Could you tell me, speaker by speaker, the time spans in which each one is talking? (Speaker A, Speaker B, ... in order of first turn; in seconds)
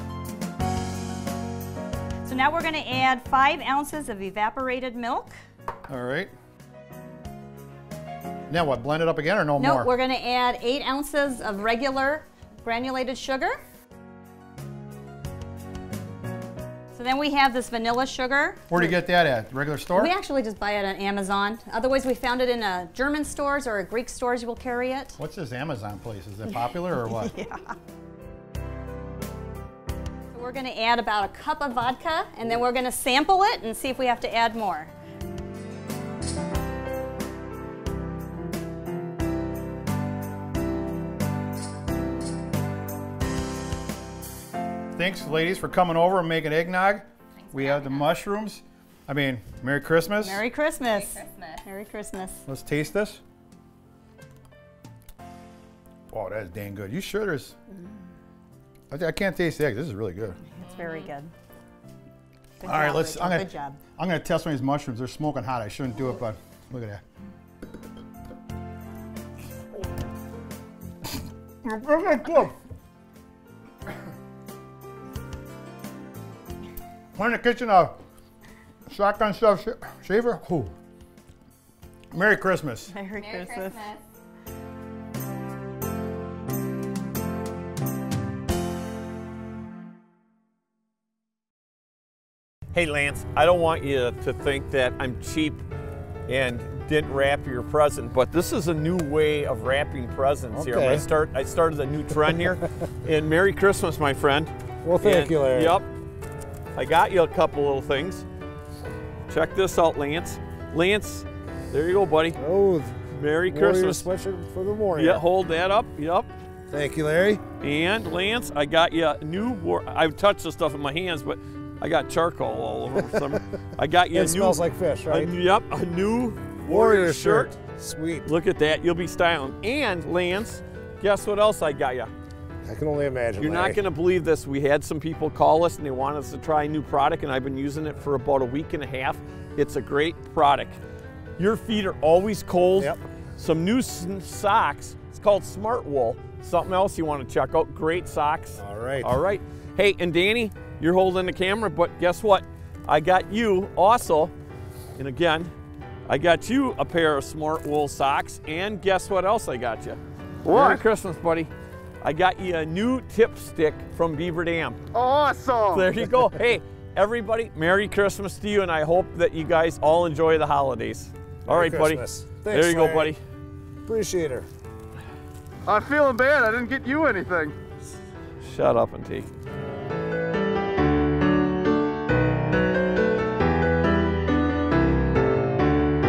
Speaker A: 2.2-5.3, 9.6-13.6, 16.9-19.0, 19.9-25.1, 26.5-27.7, 30.3-34.9, 50.2-52.4, 60.5-61.3, 62.6-63.8, 82.9-84.0
Speaker B: 5.9-6.3, 8.5-9.9, 18.7-20.1, 25.1-27.3, 45.0-50.4, 52.5-53.2, 56.1-57.5, 58.9-60.4, 62.6-67.0, 71.6-72.5, 77.2-78.0, 78.9-80.7, 82.1-83.0
Speaker C: 92.7-95.6, 96.3-105.9, 106.7-108.2, 109.3-112.4, 113.1-114.1, 114.9-116.3, 117.6-127.5, 128.2-132.1, 133.4-140.8, 141.4-154.3, 154.9-155.5, 156.1-160.0, 160.5-161.5, 162.0-164.8, 165.7-173.2, 178.4-179.4
Speaker D: 100.5-101.0, 104.8-105.8, 112.4-113.0, 113.5-115.2, 116.7-117.4, 124.1-125.3, 126.7-128.3, 132.7-133.8, 148.6-149.1, 171.5-173.1, 173.8-174.4
Speaker E: 160.4-160.8, 164.9-166.1, 175.7-177.6